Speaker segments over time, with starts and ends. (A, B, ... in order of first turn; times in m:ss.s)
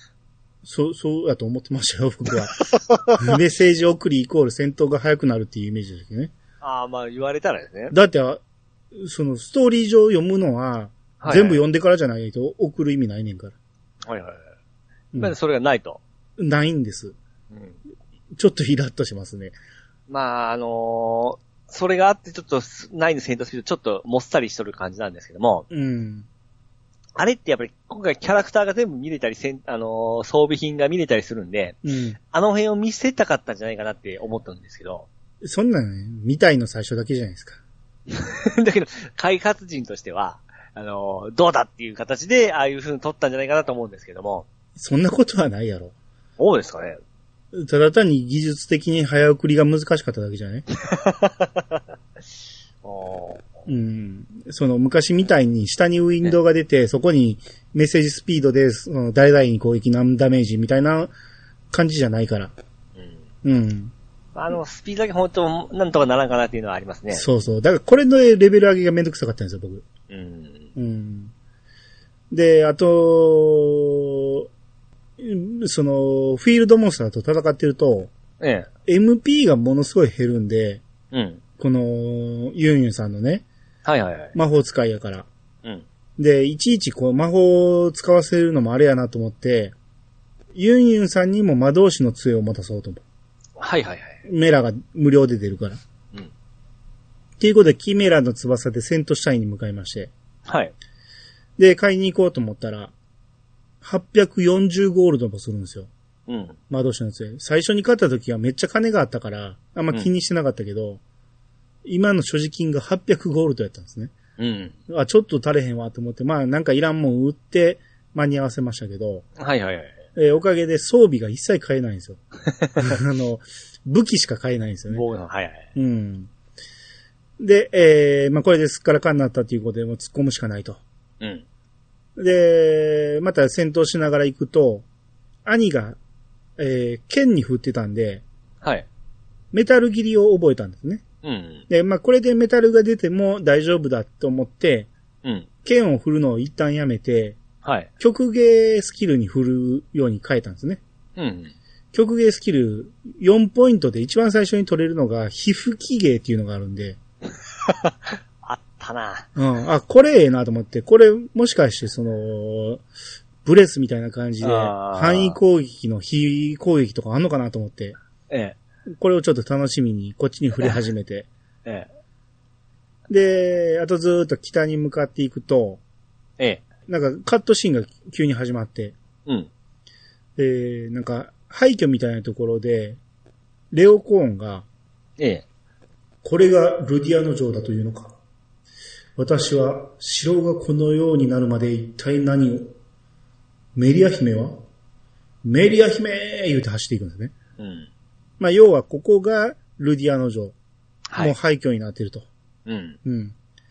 0:00.6-0:02.6 A
0:02.8-0:03.3 B
0:03.2-0:06.3 A
0:06.6-0:08.0 B
0:07.9-0:08.4 A
0:08.9-0:13.6 A
0:11.2-0:11.6 B
0:14.0-0:14.4 B
0:15.2-0:16.0 B
0:16.4-0:17.2 A
0:17.5-0:17.8 B
0:18.4-0:19.6 A
0:20.1-0:25.7 B
0:25.7-0:26.3 A
0:27.2-0:35.1 B
0:31.8-0:32.2 A
0:35.4-0:37.6 A
0:38.1-0:44.5 B
0:44.8-0:45.9 A
0:46.4-0:47.0 B
0:47.5-0:50.7 A
0:50.8-0:51.8 B
0:52.8-0:53.6 B
0:53.7-1:01.1 A
1:01.7-1:02.5 A
1:03.0-1:03.2 B
1:03.4-1:03.9 A
1:04.4-1:07.2 B
1:07.1-1:09.9 A
1:10.1-1:10.7 B
1:10.8-1:11.3 A
1:12.3-1:14.5 A
1:15.2-1:18.1 A
1:18.4-1:18.7 B
1:18.9-1:20.8 A
1:21.1-1:21.4 B
1:21.6-1:23.5 A
1:23.8-1:24.4 B
1:24.3-1:25.3 A
1:26.2-1:29.7 A
1:30.5-1:33.0 A
1:33.6-1:34.2 B
1:34.3-1:35.8 A
1:37.4-1:40.1 A
1:40.5-1:40.7 B
1:41.6-1:42.9 A
1:43.8-1:45.9 A
1:46.3-1:46.6 B
1:46.7-1:51.0 A
1:51.8-1:54.1 A
1:54.4-1:54.8 B
1:54.9-1:59.3 A
1:59.4-2:00.0 B
2:00.2-2:02.2 A
2:02.4-2:02.9 B
2:02.8-2:05.0 A
2:04.9-2:05.6 B
2:05.8-2:06.3 A
2:07.4-2:10.8 A
2:12.2-2:14.8 A
2:15.4-2:16.0 A
2:16.6-2:18.2 A
2:18.6-2:18.9 B
2:19.5-2:21.0 A
2:21.2-2:21.6 B
2:21.7-2:24.9 A
2:25.6-2:27.4 A
2:27.6-2:27.9 B
2:28.0-2:30.8 A
2:31.2-2:31.5 B
2:31.9-2:37.0 A
2:37.6-2:39.3 B
2:39.4-2:42.8 A
2:43.4-2:48.0 A
2:44.4-2:45.4 B
2:48.3-2:48.6 B
2:49.0-2:51.3 A
2:53.1-2:55.8 A
2:56.4-2:56.7 B
2:56.9-2:59.0 A
3:00.4-3:03.0 A
3:03.7-3:04.7 A
3:05.2-3:05.4 B
3:06.2-3:08.2 A
3:09.2-3:12.7 A
3:13.8-3:14.6 A
3:15.4-3:17.3 A
3:17.6-3:17.9 B
3:18.4-3:20.6 A
3:21.1-3:21.4 B
3:21.2-3:22.3 A
3:22.7-3:23.0 B
3:23.0-3:23.4 A